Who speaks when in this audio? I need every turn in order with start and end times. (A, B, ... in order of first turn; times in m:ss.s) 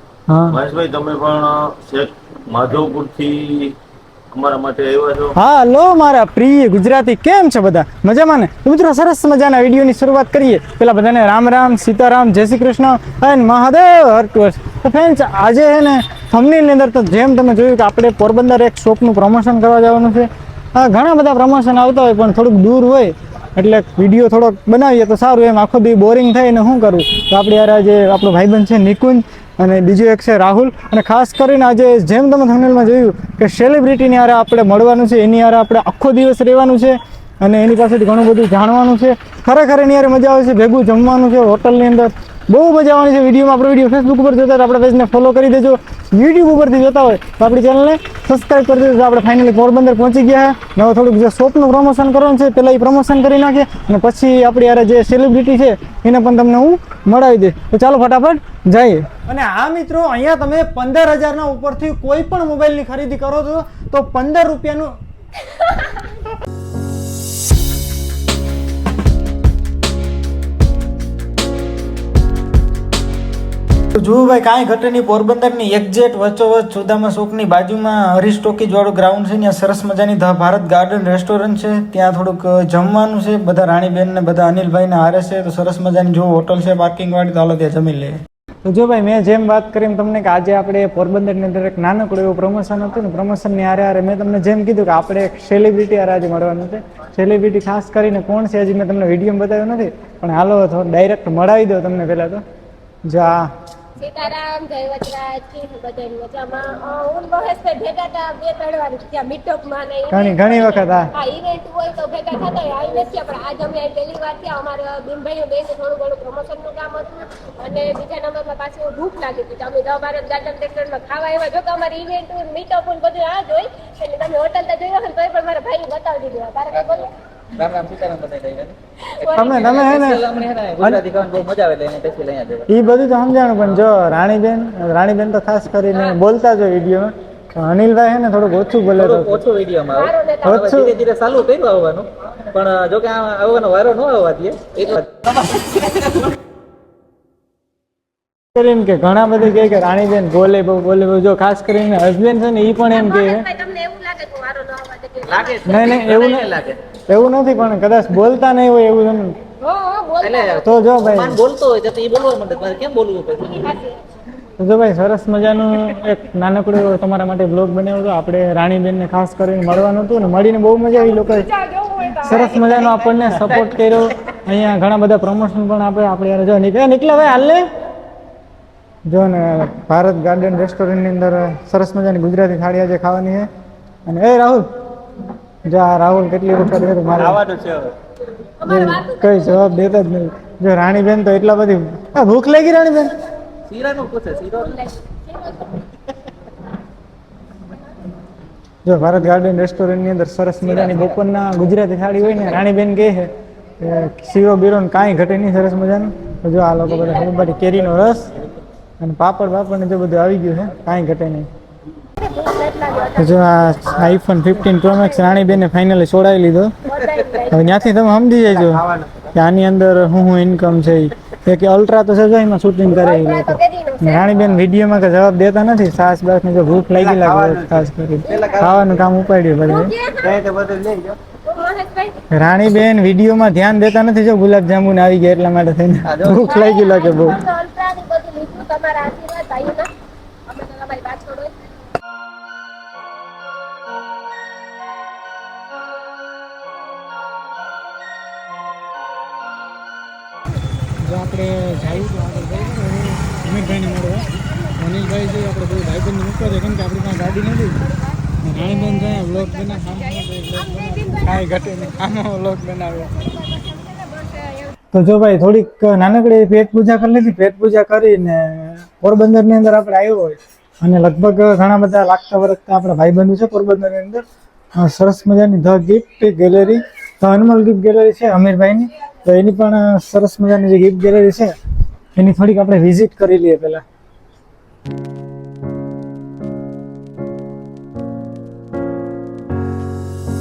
0:00.3-0:00.6 A
0:00.5-0:03.7 B
0:04.3-0:05.3 B
0:05.4-1:04.9 A
1:13.9-1:42.4 A
1:43.0-1:43.5 A
1:44.0-2:07.1 C
1:50.1-1:51.1 A
2:07.5-2:12.7 D
2:09.1-2:10.1 C
2:09.4-2:10.2 A
2:12.7-2:19.4 A
2:15.9-2:16.2 C
2:18.9-2:25.8 D
2:19.9-2:20.6 C
2:20.4-2:20.9 A
2:28.5-2:33.5 A
2:32.9-2:36.0 C
2:35.3-2:36.8 D
2:35.7-2:36.5 A
2:37.1-2:39.4 A
2:39.6-2:40.7 C
2:40.2-2:43.7 D
2:40.6-2:41.4 A
2:43.6-2:44.0 C
2:44.6-2:51.5 A
2:50.9-2:52.8 C
2:52.2-2:57.6 A
2:52.8-2:53.8 D
2:59.1-3:03.5 A
3:04.0-3:04.7 A
3:05.6-3:07.4 A
3:07.2-3:07.9 D
3:08.6-3:09.7 C
3:08.6-3:13.2 A
3:13.7-3:14.8 D
3:14.5-3:15.8 C
3:18.8-3:23.3 A
3:20.6-3:21.2 D
3:23.8-3:28.3 A
3:29.0-3:31.5 A
3:32.2-3:33.4 C
3:33.2-3:36.7 A
3:34.9-3:35.2 C
3:36.8-3:37.8 C
3:37.5-3:49.9 A
3:42.9-3:44.4 C
3:46.8-3:49.0 D
3:49.6-3:50.4 C
3:50.2-3:51.2 D
3:51.4-3:52.2 C
3:52.3-3:57.4 A
3:56.1-3:56.5 D
3:56.4-3:59.9 C
4:00.4-4:01.7 C
4:11.0-4:14.3 A
4:14.2-4:14.8 C
4:14.8-4:17.8 A
4:17.8-4:22.1 C
4:18.4-4:23.1 A
4:22.8-4:24.7 C
4:24.9-4:34.2 A
4:34.8-4:41.5 A
4:42.2-4:43.8 A